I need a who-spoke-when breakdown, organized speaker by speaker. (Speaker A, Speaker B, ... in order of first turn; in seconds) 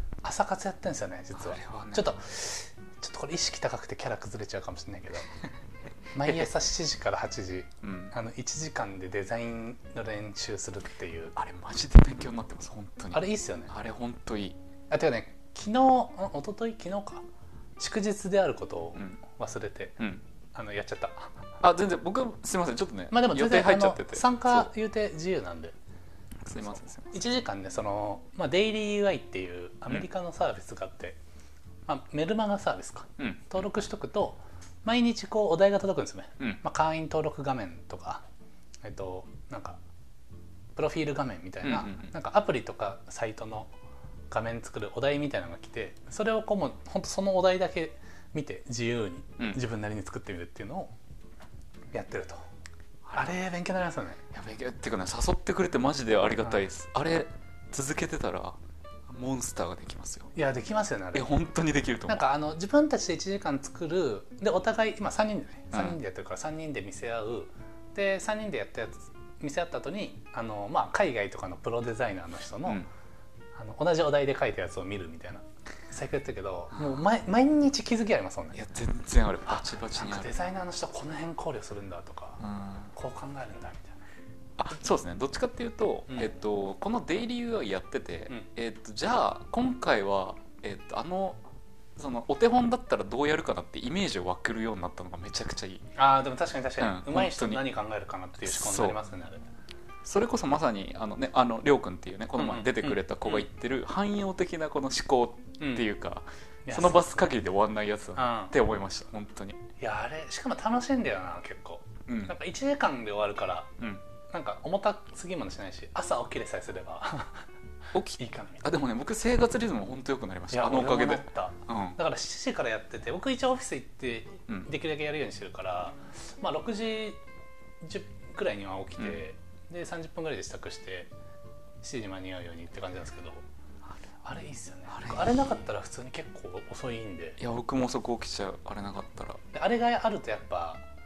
Speaker A: 0.2-5.3, 6.2-11.3, 13.1-13.7, 14.9-17.2, 17.8-21.4, 23.1-25.8, 26.6-31.2, 31.9-38.2, 38.8-39.8, 40.8-43.7, 44.3-50.9, 51.9-52.4, 53.1-54.2, 60.4-61.3, 62.1-72.9, 73.5-78.6, 79.5-82.4, 82.9-84.0, 96.0-99.5, 102.4-103.0, 105.6-105.9, 106.7-107.0, 108.2-108.5, 109.8-113.7, 114.3-117.4, 118.2-118.8, 120.5-127.2, 127.8-131.1, 131.8-133.4, 134.2-137.4, 139.5-140.8
Speaker B: 1.3-2.1, 7.8-8.1, 11.4-14.6, 21.6-24.7, 26.4-27.2, 33.2-33.5, 41.6-42.1, 53.1-53.3, 54.3-58.6, 59.1-60.3, 61.1-62.3, 78.5-80.4, 82.4-82.9, 84.6-91.4, 92.0-95.9, 96.8-97.6, 98.4-99.0, 100.0-109.6, 112.1-112.3, 117.9-122.0, 134.9-135.4, 137.4-139.4